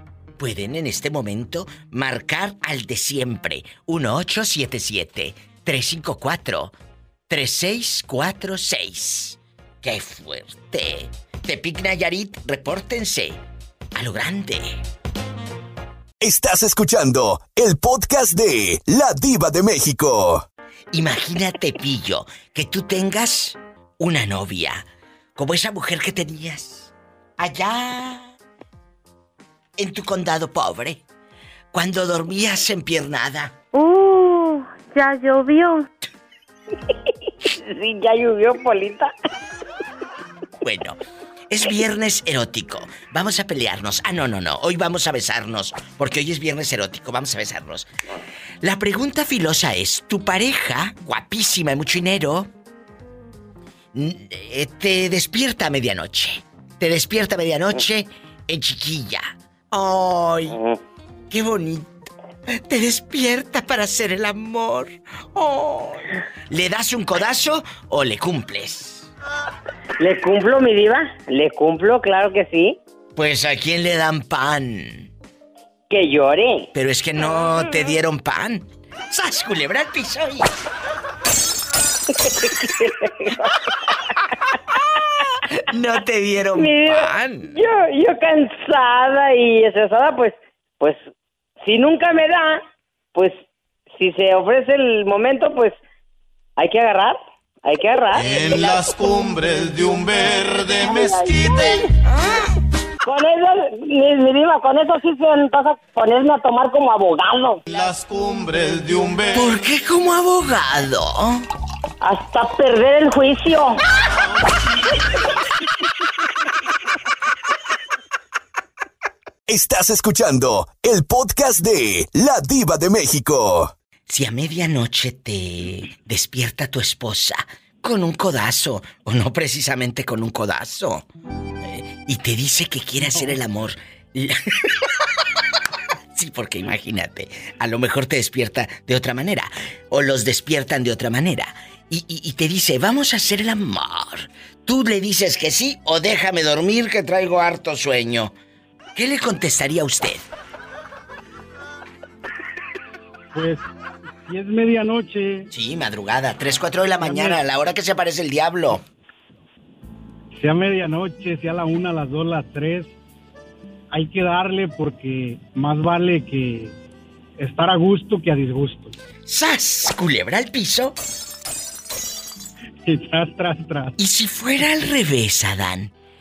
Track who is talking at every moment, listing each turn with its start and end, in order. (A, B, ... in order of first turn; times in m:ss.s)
0:00.4-0:06.7 A
0:07.3-0:13.4 A
0:13.9-0:14.8 A
0:16.2-0:20.4 B
0:20.9-0:28.3 A
0:29.8-0:31.0 A
0:31.7-0:33.5 A
0:33.7-0:35.9 C
0:38.7-0:39.0 D
0:40.6-0:41.0 A
0:41.5-0:47.9 A
0:48.6-0:52.5 A
0:53.9-1:00.6 A
1:01.3-1:01.9 A
1:02.5-1:09.1 A
1:10.0-1:12.8 D
1:13.2-1:15.1 A
1:15.9-1:16.7 D
1:16.7-1:20.5 A
1:25.5-1:27.6 A
1:28.0-1:31.0 D
1:31.6-1:32.6 D
1:34.0-1:35.7 D
1:36.6-1:37.1 D
1:37.6-1:38.0 D
1:38.1-1:41.9 E
1:43.1-1:47.5 D
1:47.7-1:49.6 E
1:49.3-1:51.4 A
1:52.0-1:53.6 D
1:59.5-2:03.7 B
2:04.1-2:11.0 A
2:11.6-2:14.4 A
2:16.1-2:28.3 A
2:28.9-2:30.2 A
2:33.3-2:33.7 F
2:34.2-2:35.5 F
2:35.5-2:38.8 A
2:37.0-2:37.4 F
2:40.4-2:42.9 F
2:43.9-2:46.7 F
2:47.4-2:48.9 F
2:49.3-2:51.0 A
2:52.9-2:53.9 F
2:54.0-2:55.9 A